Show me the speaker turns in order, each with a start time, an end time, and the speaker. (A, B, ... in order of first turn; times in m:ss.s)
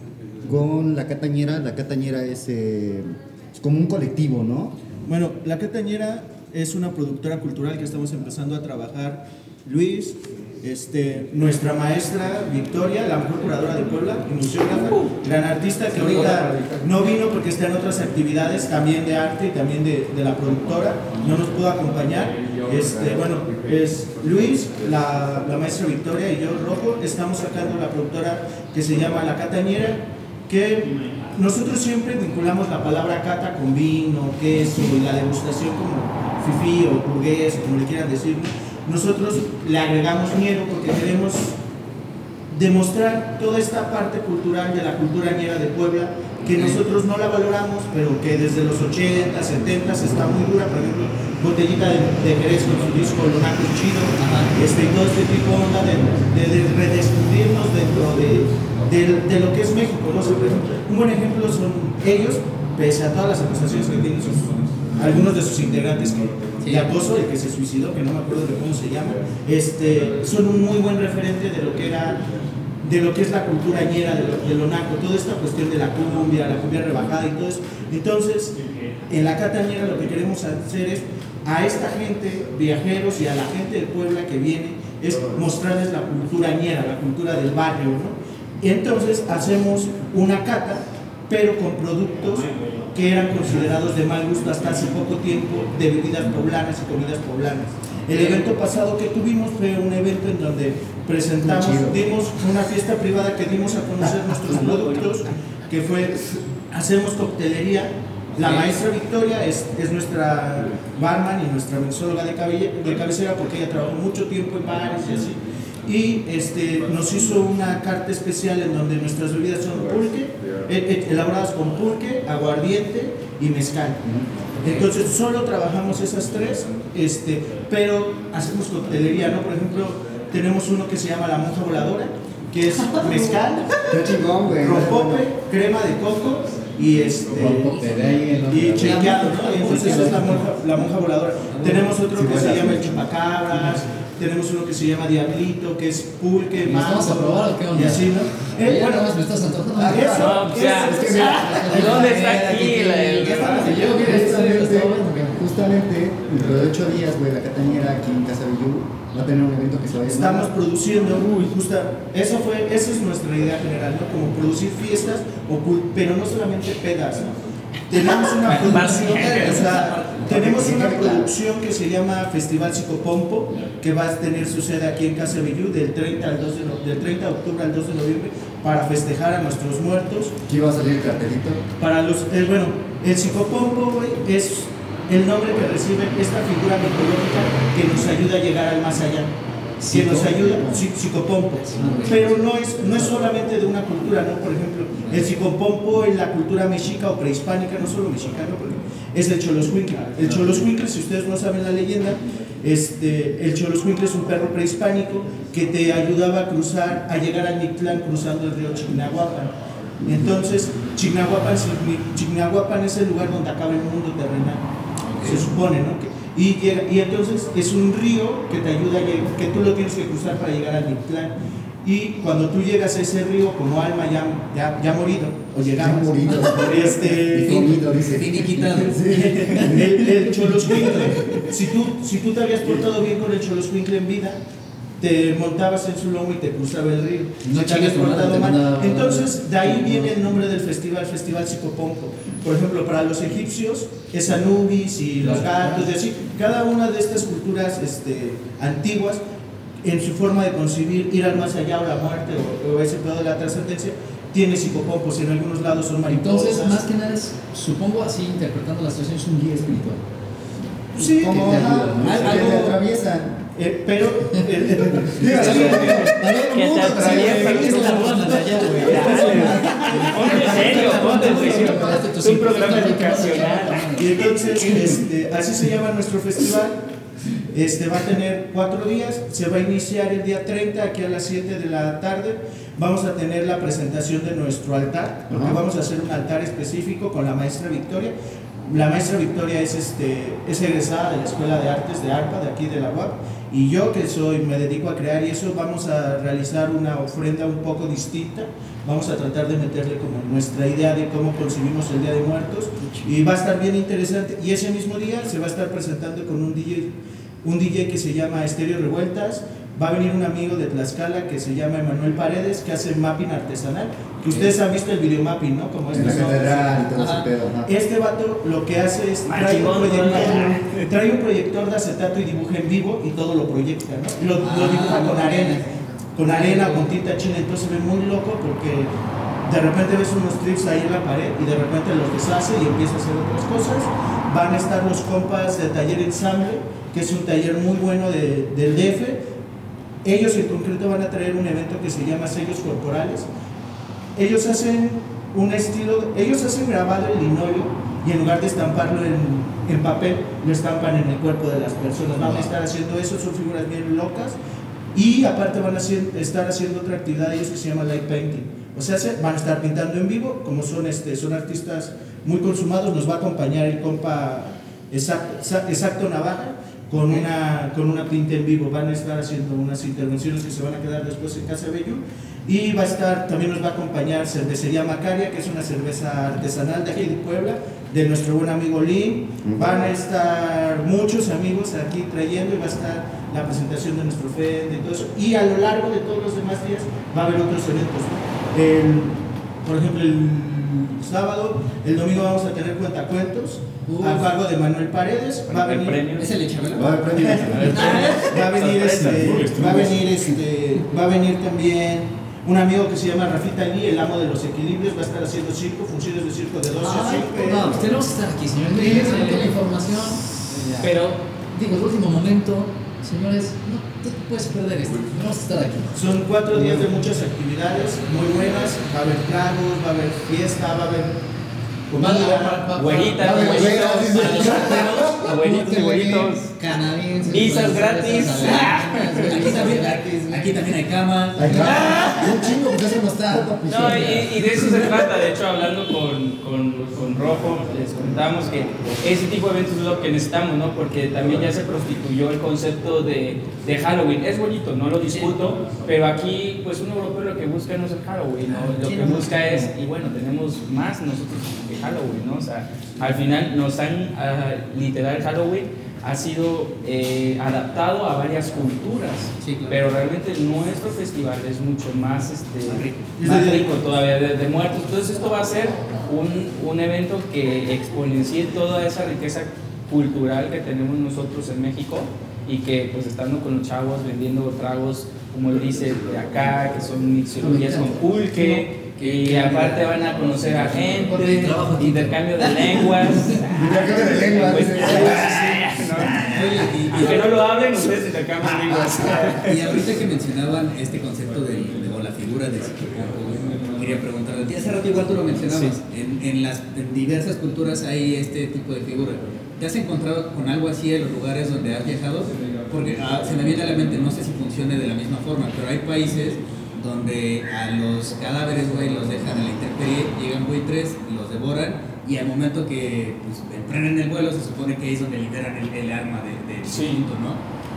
0:00.4-0:04.8 A
0:05.0-0:41.6 B
0:14.8-0:15.1 C
0:15.9-0:17.0 C
0:42.5-1:12.2 B
0:46.5-0:46.8 D
0:54.2-0:54.5 D
1:06.6-1:06.9 D
1:12.8-2:13.9 B
1:38.1-1:38.4 D
1:41.4-1:42.1 A
1:44.4-1:45.1 C
1:48.4-1:48.7 D
2:13.8-2:15.3 A
2:14.5-2:17.9 B
2:17.3-2:20.5 E
2:18.5-2:29.2 B
2:21.5-2:21.9 D
2:22.1-2:23.1 A
2:26.6-2:30.2 E
2:29.7-2:31.9 A
2:29.8-2:32.4 B
2:30.1-2:33.9 C
2:31.3-2:35.4 E
2:32.1-2:32.5 D
2:33.1-2:34.2 B
2:33.7-2:40.5 A
2:40.1-2:47.3 B
2:47.9-3:00.4 B
2:48.4-2:50.3 D
2:48.4-2:49.8 C
2:50.2-2:51.3 A
3:00.5-3:01.6 A
3:01.8-3:09.3 B
3:09.8-3:10.8 E
3:09.8-3:34.6 B
3:11.7-3:12.3 E
3:11.8-3:12.2 D
3:15.0-3:15.3 D
3:30.0-3:30.3 A
3:35.0-3:35.5 D
3:35.2-3:47.7 B
3:45.7-3:50.0 A
3:47.3-3:49.8 D
3:49.1-3:54.4 B
3:55.0-4:09.2 B
3:57.4-3:59.4 E
4:05.2-4:05.8 E
4:09.8-4:16.8 B
4:16.1-4:20.0 E
4:20.9-4:22.8 B
4:21.0-4:23.4 A
4:21.1-4:22.6 E
4:23.5-4:26.1 B
4:24.9-4:28.1 A
4:25.2-4:34.2 C
4:26.9-4:31.0 B
4:26.9-4:35.0 E
4:28.7-4:32.0 A
4:33.9-4:36.8 B
4:37.4-4:48.1 B
4:45.3-4:45.6 A
4:48.6-5:16.9 B
5:02.8-5:03.1 E
5:15.9-5:17.7 A
5:16.9-5:17.3 D
5:17.6-5:28.9 B
5:19.2-5:20.9 C
5:24.4-5:25.6 D
5:26.2-5:26.9 D
5:29.4-5:39.3 B
5:40.0-5:43.3 B
5:44.2-5:54.4 B
5:52.2-5:52.5 D
5:54.9-6:36.1 B
6:19.4-6:19.9 A
6:33.8-6:34.3 E
6:35.5-6:36.4 C
6:36.1-6:37.1 D
6:36.7-6:37.9 A
6:37.0-6:48.0 B
6:37.3-6:39.9 C
6:37.7-6:38.3 D
6:46.8-6:56.0 E
6:48.7-6:49.6 B
6:55.9-7:01.2 B
7:01.9-7:02.8 B
7:01.9-7:10.6 E
7:02.7-7:06.5 C
7:03.2-7:05.3 A
7:07.3-7:09.6 C
7:08.2-7:12.4 D
7:11.3-7:14.6 A
7:13.7-8:09.8 C
7:28.5-7:29.7 D
7:39.4-7:39.9 D
7:42.6-7:43.1 D
7:43.2-7:43.9 B
7:57.4-7:57.9 E
7:59.0-7:59.8 D
8:00.8-8:02.2 E
8:01.3-8:01.7 D
8:03.5-8:05.3 A
8:04.6-8:06.1 B
8:05.2-8:07.3 D
8:08.6-8:09.3 A
8:09.3-8:37.4 D
8:15.5-8:15.8 C
8:36.6-8:37.1 C